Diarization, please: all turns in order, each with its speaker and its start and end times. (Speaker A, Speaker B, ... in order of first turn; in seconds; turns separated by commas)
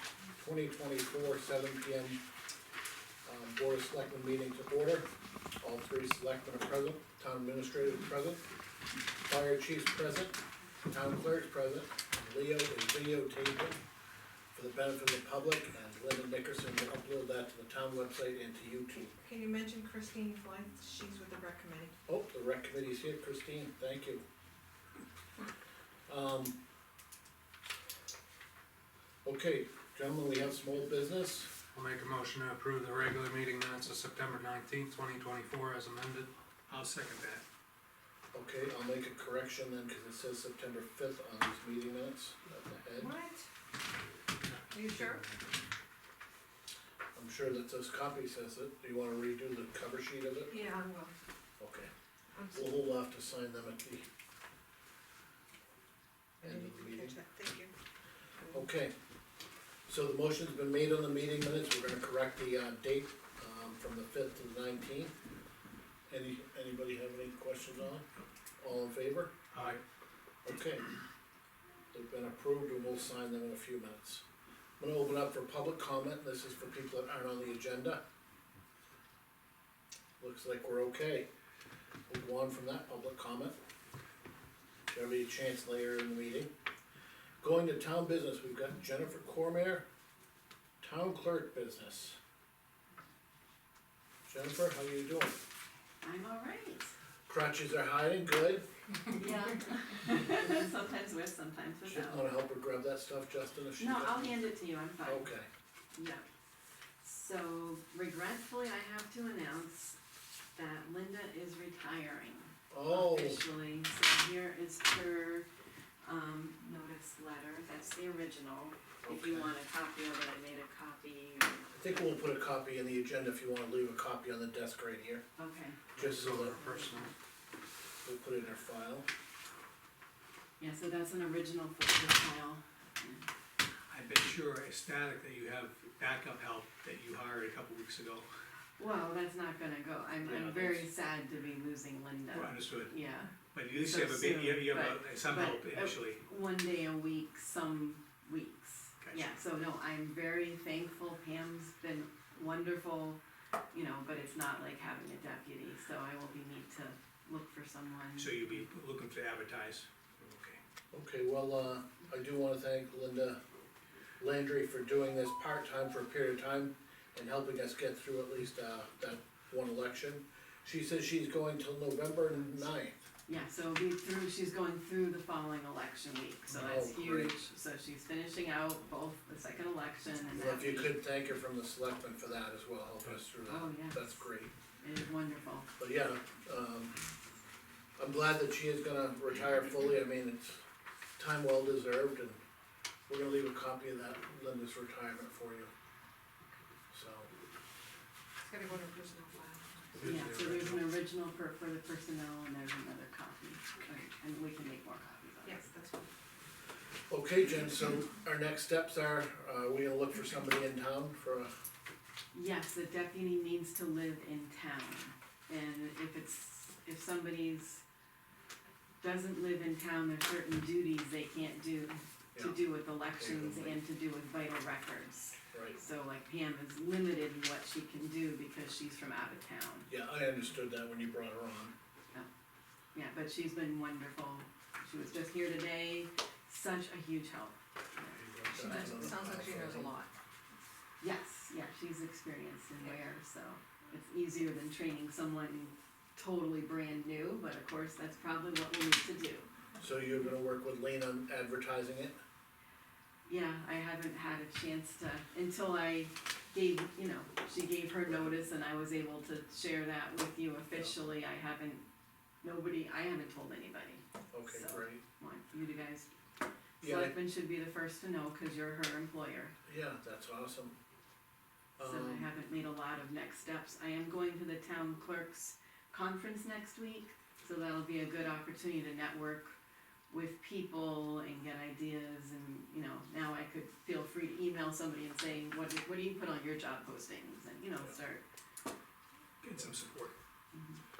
Speaker A: 0.4-2.2, Speaker A: 3.2-5.1, Speaker A: 5.6-8.4, Speaker A: 9.2-10.3, Speaker A: 10.9-13.8, Speaker A: 14.5-19.1, Speaker B: 19.1-21.9, Speaker A: 22.1-24.2, Speaker A: 26.1-26.5, Speaker A: 29.2-31.5, Speaker C: 31.7-36.3, Speaker D: 36.7-37.4, Speaker A: 38.3-43.1, Speaker B: 43.0-43.5, Speaker B: 44.7-45.2, Speaker A: 47.1-50.6, Speaker B: 50.5-51.1, Speaker A: 51.6-51.9, Speaker B: 52.4-52.7, Speaker A: 52.5-54.0, Speaker B: 56.4-57.7, Speaker A: 56.4-57.1, Speaker A: 58.5-58.9, Speaker A: 59.9-65.1, Speaker A: 66.1-68.1, Speaker A: 68.6-69.8, Speaker D: 69.5-69.8, Speaker A: 70.4-70.9, Speaker A: 71.9-74.2, Speaker A: 74.8-78.0, Speaker A: 80.2-81.3, Speaker A: 82.1-83.5, Speaker A: 84.9-86.5, Speaker A: 87.4-89.8, Speaker A: 90.8-92.2, Speaker A: 94.3-95.4, Speaker E: 96.0-96.9, Speaker A: 97.3-98.7, Speaker E: 99.2-102.3, Speaker A: 101.8-104.4, Speaker E: 103.8-105.3, Speaker A: 105.0-105.5, Speaker E: 105.9-106.2, Speaker E: 107.0-110.0, Speaker E: 110.5-115.5, Speaker A: 112.7-113.4, Speaker E: 116.0-121.9, Speaker A: 119.0-119.5, Speaker A: 121.7-125.2, Speaker E: 125.4-125.9, Speaker A: 126.0-126.6, Speaker C: 126.0-127.1, Speaker E: 126.6-127.1, Speaker A: 128.0-129.1, Speaker E: 130.6-133.3, Speaker D: 133.9-138.3, Speaker E: 138.8-153.2, Speaker A: 140.2-140.9, Speaker D: 142.3-142.9, Speaker D: 143.5-146.2, Speaker D: 149.0-149.4, Speaker E: 153.7-158.6, Speaker D: 158.2-160.6, Speaker A: 160.9-163.4, Speaker A: 164.2-173.0, Speaker E: 173.3-180.9, Speaker A: 176.5-177.3, Speaker A: 180.4-184.5, Speaker E: 183.5-184.3, Speaker E: 184.8-185.7, Speaker A: 185.8-187.0, Speaker A: 188.0-190.6, Speaker A: 191.2-192.4, Speaker A: 193.1-195.7, Speaker A: 196.9-197.3, Speaker B: 198.4-200.0, Speaker C: 199.9-200.9, Speaker E: 200.0-205.7, Speaker B: 205.4-206.1, Speaker A: 207.1-211.5, Speaker E: 212.3-217.8, Speaker E: 219.0-229.9, Speaker A: 222.3-222.6, Speaker A: 223.1-223.8, Speaker A: 229.9-231.7, Speaker E: 232.9-239.2, Speaker A: 238.0-239.9, Speaker B: 238.5-240.1, Speaker E: 241.0-249.5, Speaker A: 249.8-252.2, Speaker E: 253.2-261.8, Speaker A: 258.1-258.4, Speaker E: 262.4-266.1, Speaker A: 264.3-265.0, Speaker A: 266.8-267.1, Speaker E: 266.8-269.5, Speaker A: 269.6-270.8, Speaker A: 271.8-272.3, Speaker E: 271.8-279.6, Speaker E: 280.1-288.2, Speaker D: 289.4-290.1, Speaker E: 290.5-290.8